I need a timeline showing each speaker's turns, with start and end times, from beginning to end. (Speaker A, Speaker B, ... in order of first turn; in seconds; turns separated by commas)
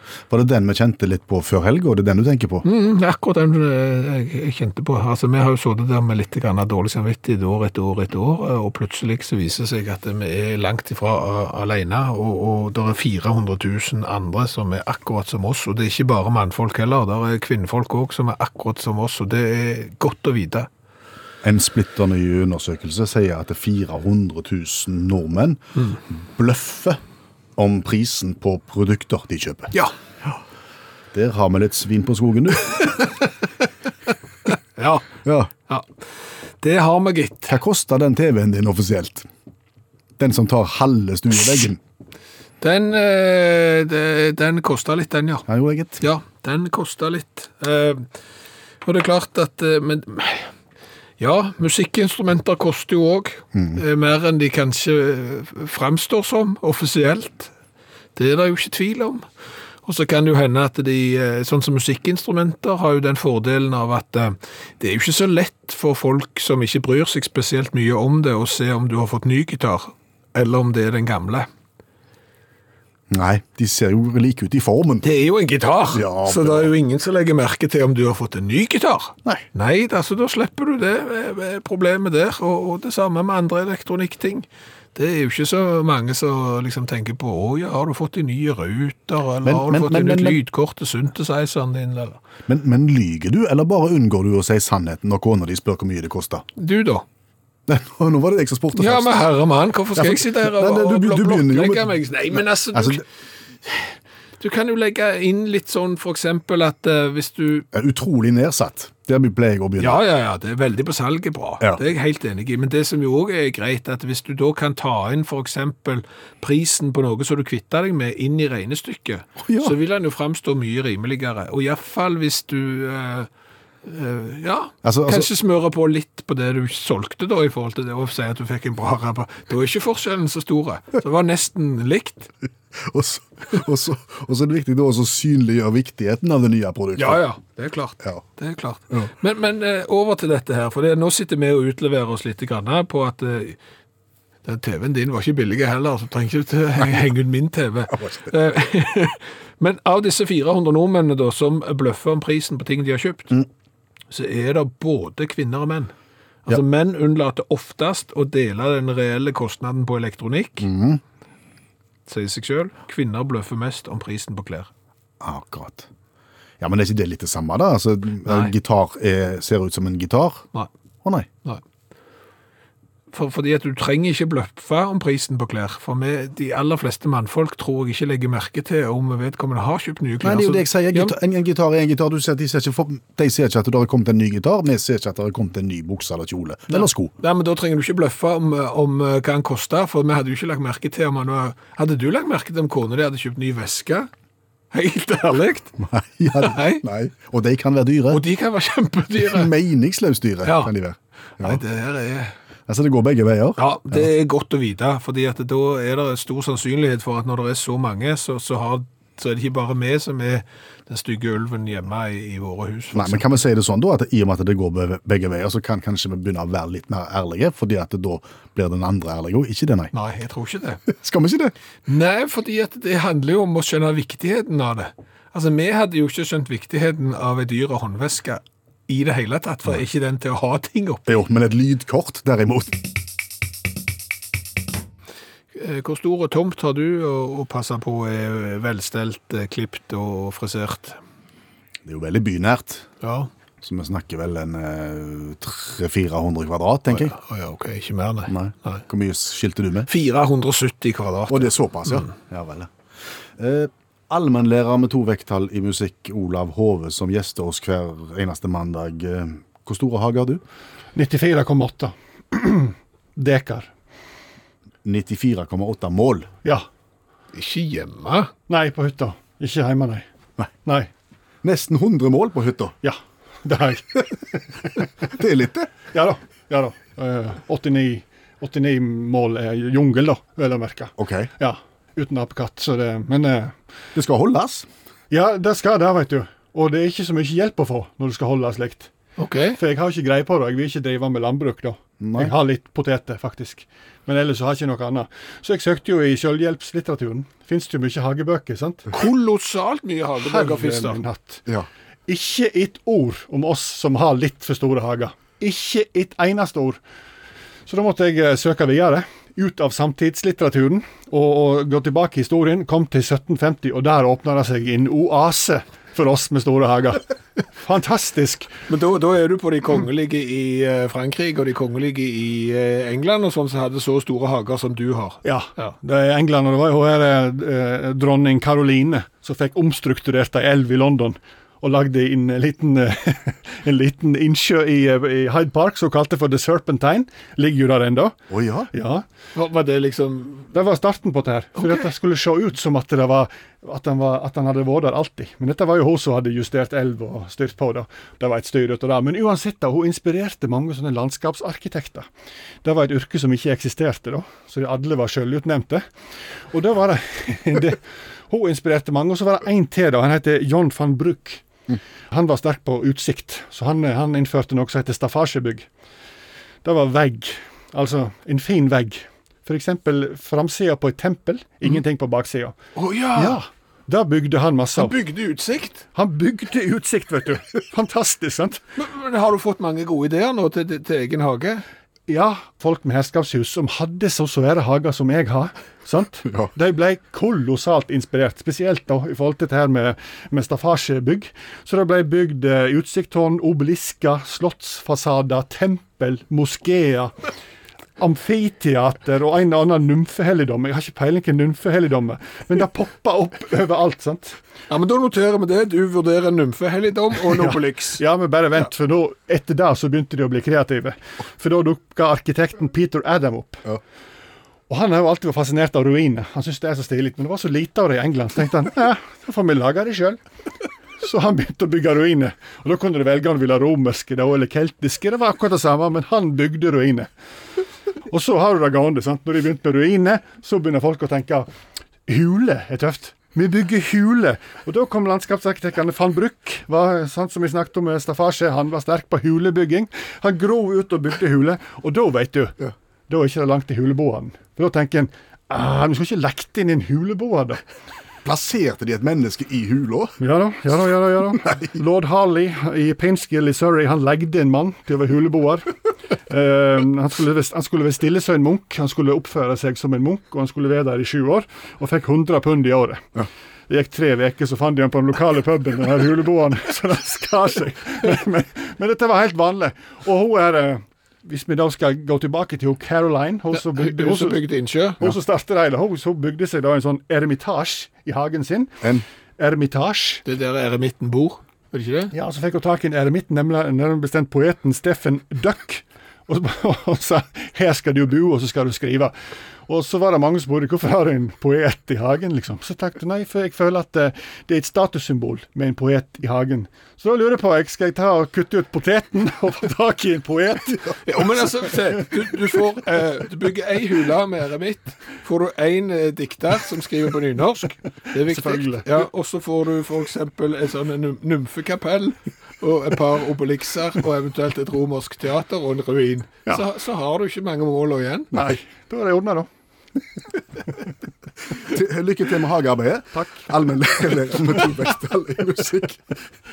Speaker A: 0.3-2.6, Speaker B: 2.6-20.7, Speaker A: 21.4-27.0, Speaker A: 27.6-29.7, Speaker A: 31.1-32.9, Speaker B: 32.7-33.3, Speaker B: 34.5-35.0, Speaker A: 35.2-35.5, Speaker B: 36.6-37.6, Speaker A: 37.5-39.3, Speaker A: 40.2-41.8, Speaker B: 42.6-45.5, Speaker A: 45.5-46.0, Speaker B: 46.0-48.1, Speaker B: 48.8-50.5, Speaker B: 51.2-57.5, Speaker A: 53.5-53.8, Speaker B: 58.1-59.2, Speaker B: 59.8-71.5, Speaker A: 73.1-75.0, Speaker B: 75.0-92.2, Speaker A: 75.9-76.7, Speaker A: 89.4-90.4, Speaker A: 92.5-96.4, Speaker B: 96.6-97.0, Speaker A: 97.7-99.2, Speaker B: 98.8-103.0, Speaker A: 100.0-103.0, Speaker B: 104.4-107.7, Speaker A: 107.7-110.0, Speaker B: 109.8-123.3, Speaker A: 119.4-119.7, Speaker B: 123.8-132.3, Speaker A: 124.8-125.3, Speaker A: 132.8-137.2, Speaker B: 136.9-143.6, Speaker B: 144.4-153.4, Speaker A: 147.9-148.3, Speaker B: 154.1-155.9, Speaker B: 156.4-160.7, Speaker A: 160.6-161.0, Speaker B: 162.1-164.7, Speaker A: 165.2-165.9, Speaker A: 166.6-170.4, Speaker B: 168.2-168.5, Speaker B: 173.1-181.1, Speaker A: 180.2-187.1, Speaker B: 186.7-194.1, Speaker B: 194.7-195.7, Speaker A: 195.8-198.2, Speaker B: 196.3-196.8, Speaker B: 198.1-199.5, Speaker A: 199.2-201.6, Speaker B: 200.4-200.7, Speaker B: 201.4-202.3, Speaker A: 202.7-204.1, Speaker B: 203.6-213.3, Speaker A: 212.9-219.9, Speaker B: 219.9-220.8, Speaker A: 220.9-221.5, Speaker B: 221.9-231.2, Speaker A: 231.1-232.8, Speaker B: 235.5-241.0, Speaker A: 241.8-242.9, Speaker B: 243.0-243.3, Speaker A: 243.6-247.1, Speaker B: 246.9-248.8, Speaker A: 248.3-249.9, Speaker B: 249.9-252.1, Speaker A: 251.3-252.7, Speaker A: 253.4-260.4, Speaker C: 260.9-263.7, Speaker A: 264.8-266.3, Speaker B: 267.3-268.3, Speaker C: 268.5-270.1, Speaker C: 270.6-270.9, Speaker A: 271.4-272.8, Speaker C: 272.8-274.4, Speaker A: 275.1-275.7, Speaker C: 275.9-283.5, Speaker A: 281.0-281.3, Speaker A: 283.9-284.7, Speaker C: 285.1-288.9, Speaker B: 289.2-289.6, Speaker C: 289.6-298.9, Speaker A: 292.0-292.3, Speaker B: 298.9-301.0, Speaker C: 300.2-301.4, Speaker C: 302.1-306.8, Speaker C: 307.7-317.0, Speaker C: 317.6-318.5, Speaker B: 318.7-325.7, Speaker C: 325.2-338.2, Speaker A: 338.3-338.7, Speaker C: 338.7-339.0, Speaker B: 339.3-340.5, Speaker C: 340.5-352.1, Speaker B: 341.6-341.9, Speaker C: 352.6-355.8, Speaker C: 356.5-361.4, Speaker C: 362.1-365.7, Speaker C: 366.6-372.5, Speaker B: 372.7-373.4, Speaker C: 373.1-374.9, Speaker B: 374.8-375.9, Speaker C: 375.9-378.6, Speaker B: 378.8-381.6, Speaker C: 382.1-397.1, Speaker C: 398.0-404.4, Speaker B: 404.7-408.0, Speaker C: 407.3-413.6, Speaker C: 414.7-420.2, Speaker C: 421.0-427.1, Speaker C: 428.1-431.5, Speaker C: 432.1-442.6, Speaker C: 443.1-447.6, Speaker A: 448.2-450.2, Speaker C: 450.2-455.7, Speaker A: 451.4-451.8, Speaker C: 456.3-474.4, Speaker B: 473.5-475.0, Speaker C: 475.0-478.8, Speaker C: 479.4-480.2, Speaker B: 480.2-482.1, Speaker C: 482.1-489.1, Speaker C: 489.7-501.0, Speaker B: 501.0-518.4, Speaker C: 508.3-508.9, Speaker C: 518.3-519.5, Speaker A: 521.6-526.1